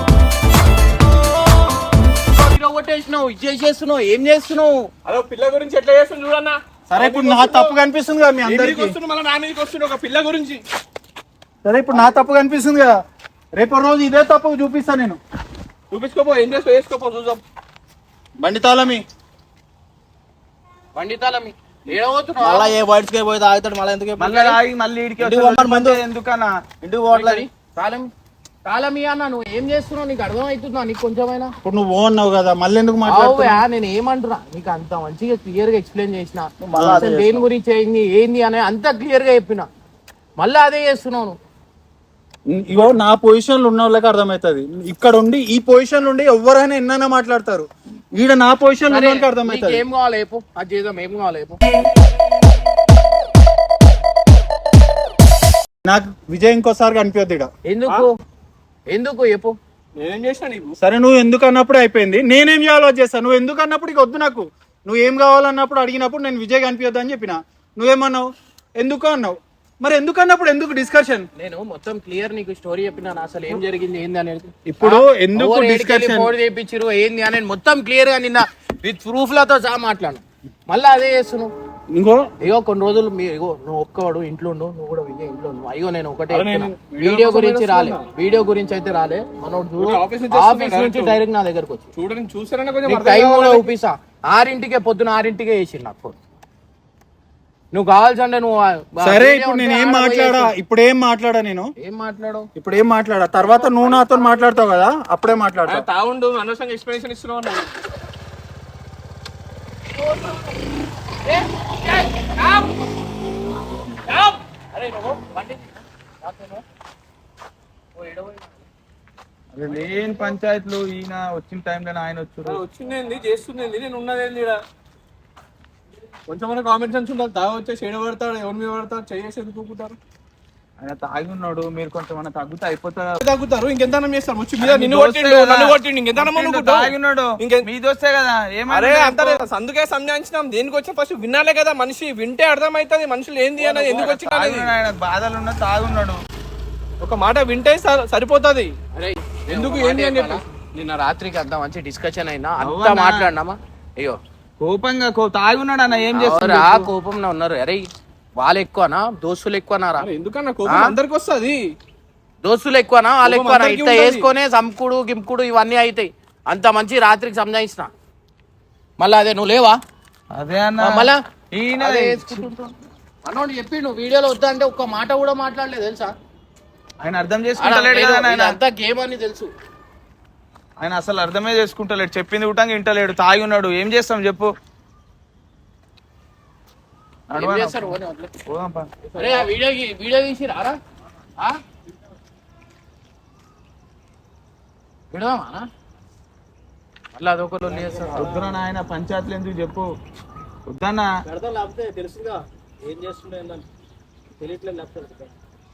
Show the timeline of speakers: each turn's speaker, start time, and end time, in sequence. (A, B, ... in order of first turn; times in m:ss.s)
0:02.3-0:04.9 A
0:05.0-0:07.7 B
0:06.9-0:09.0 C
0:08.4-0:10.6 B
0:11.6-0:13.0 C
0:13.5-0:15.2 C
0:15.9-0:17.4 B
0:18.4-0:19.0 C
0:20.9-0:22.7 A
0:22.4-0:24.6 D
0:24.2-0:26.7 E
0:25.2-0:26.0 D
0:26.7-0:27.5 D
0:27.1-0:28.1 A
0:28.6-0:31.5 A
0:31.6-0:33.6 C
0:33.0-0:39.7 A
0:36.6-0:37.4 D
0:36.7-0:37.0 C
0:40.4-0:41.4 A
0:42.5-0:49.8 C
0:48.9-0:51.6 A
0:55.8-0:57.5 C
0:57.7-0:58.1 A
0:58.9-0:59.5 A
1:00.0-1:00.8 B
1:00.8-1:08.3 C
1:08.8-1:11.3 C
1:11.4-1:21.5 A
1:14.7-1:16.3 C
1:21.9-1:22.3 C
1:22.4-1:31.8 A
1:26.3-1:28.0 B
1:29.8-1:31.2 B
1:32.0-1:33.7 B
1:32.9-1:36.2 A
1:37.7-1:40.5 A
1:39.0-1:41.7 C
1:41.8-1:42.5 A
1:42.6-1:45.8 C
1:43.6-1:44.6 A
1:45.6-1:47.7 B
1:50.0-1:50.4 A
1:51.2-1:52.8 A
1:54.7-1:55.6 A
1:56.2-1:56.6 A
1:58.0-1:58.5 A
1:59.5-2:02.6 E
2:02.4-2:04.6 B
2:06.3-2:10.0 B
2:10.8-2:13.2 E
2:13.2-2:17.6 B
2:14.6-2:19.4 E
2:18.7-2:24.7 B
2:23.6-2:26.2 E
2:27.0-2:28.7 B
2:28.9-2:34.2 A
2:29.5-2:30.4 B
2:32.6-2:33.3 E
2:34.6-2:36.9 E
2:36.1-2:37.8 A
2:38.4-2:40.1 A
2:40.0-2:41.6 B
2:40.6-2:40.9 A
2:42.4-2:47.9 A
2:43.2-2:44.3 B
2:49.0-2:49.8 A
2:50.3-2:52.4 E
2:50.8-2:51.2 A
2:51.7-2:52.7 A
2:53.2-2:56.1 A
2:57.0-2:58.5 E
2:57.6-2:59.5 A
3:00.8-3:04.5 E
3:07.3-3:08.0 E
3:07.3-3:08.3 A
3:08.5-3:08.9 E
3:09.0-3:09.5 B
3:09.2-3:10.8 A
3:15.1-3:15.6 A
3:17.1-3:18.3 A
3:17.7-3:18.6 D
3:18.1-3:19.9 E
3:20.7-3:21.1 E
3:21.2-3:23.6 D
3:24.4-3:25.3 D